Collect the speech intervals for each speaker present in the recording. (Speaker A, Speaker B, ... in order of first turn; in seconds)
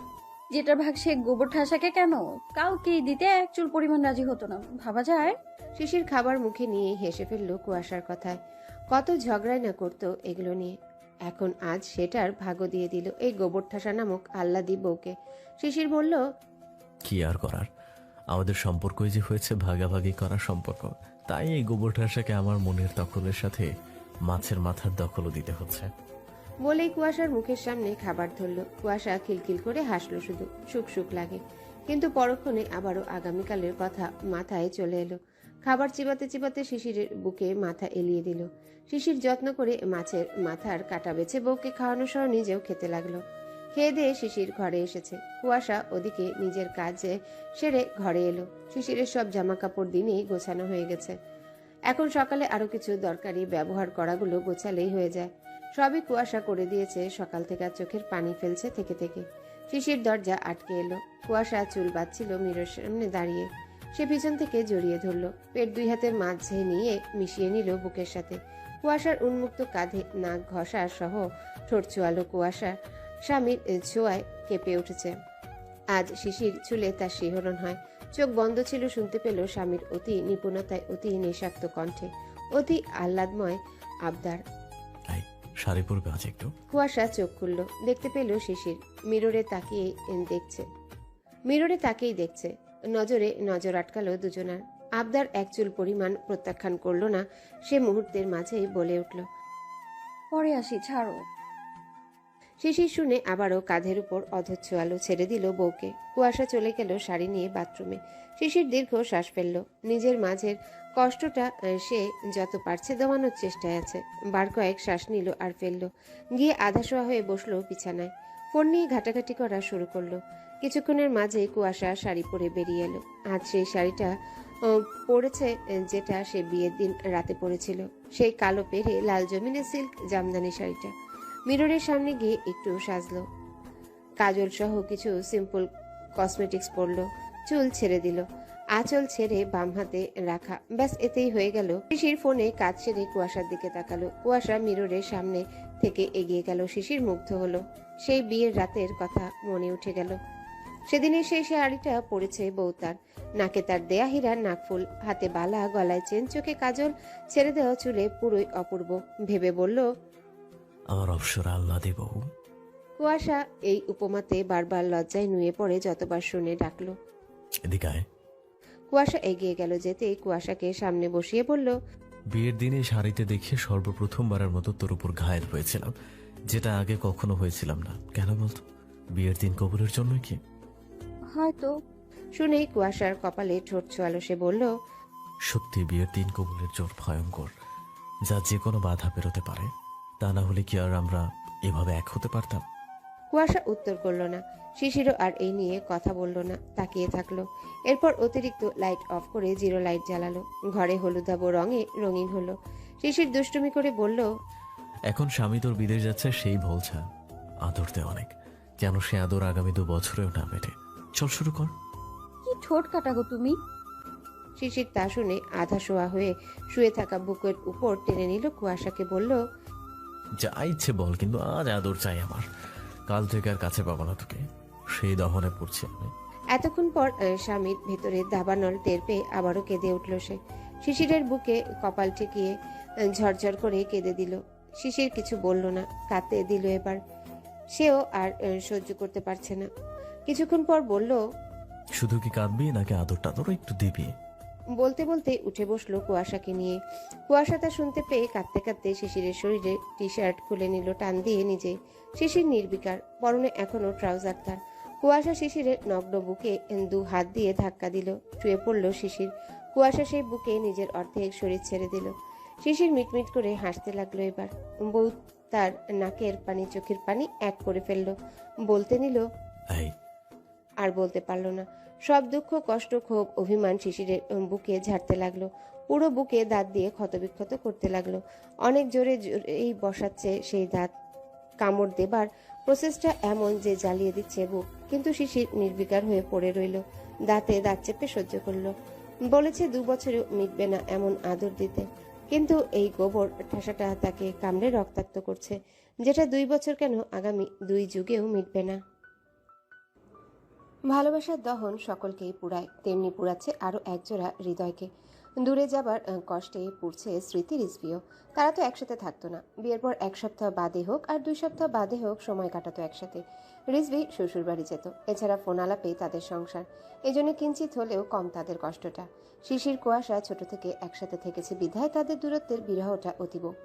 Speaker A: 0.5-5.3, 100.3-101.2, 181.3-181.7, 212.4-213.6
Speaker B: 5.8-8.4, 8.9-10.8, 11.3-16.2, 26.6-43.2, 43.7-51.1, 51.9-75.1, 75.9-84.4, 86.7-90.7, 91.5-99.2, 102.6-124.1, 124.7-130.9, 131.5-133.2, 134.2-135.7, 136.2-138.2, 138.8-150.2, 150.9-159.9, 163.0-166.9, 168.9-171.7, 182.4-184.7, 193.3-204.3, 214.6-219.4, 226.5-232.5, 233.2-237.0, 237.8-239.7, 240.3-241.2, 244.8-246.8, 247.3-262.1, 262.6-268.1, 268.7-269.2, 270.8-280.9, 281.6-288.7, 289.3-298.8, 300.9-304.9, 305.4-323.5
Speaker C: 17.1-17.7, 18.3-23.7, 24.2-25.9, 85.1-86.5, 160.9-162.2, 167.7-168.1, 172.3-175.9, 176.5-178.6, 179.2-180.4, 185.5-187.5, 188.3-192.6, 205.1-207.0, 207.6-208.3, 208.8-211.7, 220.4-222.4, 223.1-226.1, 242.0-244.1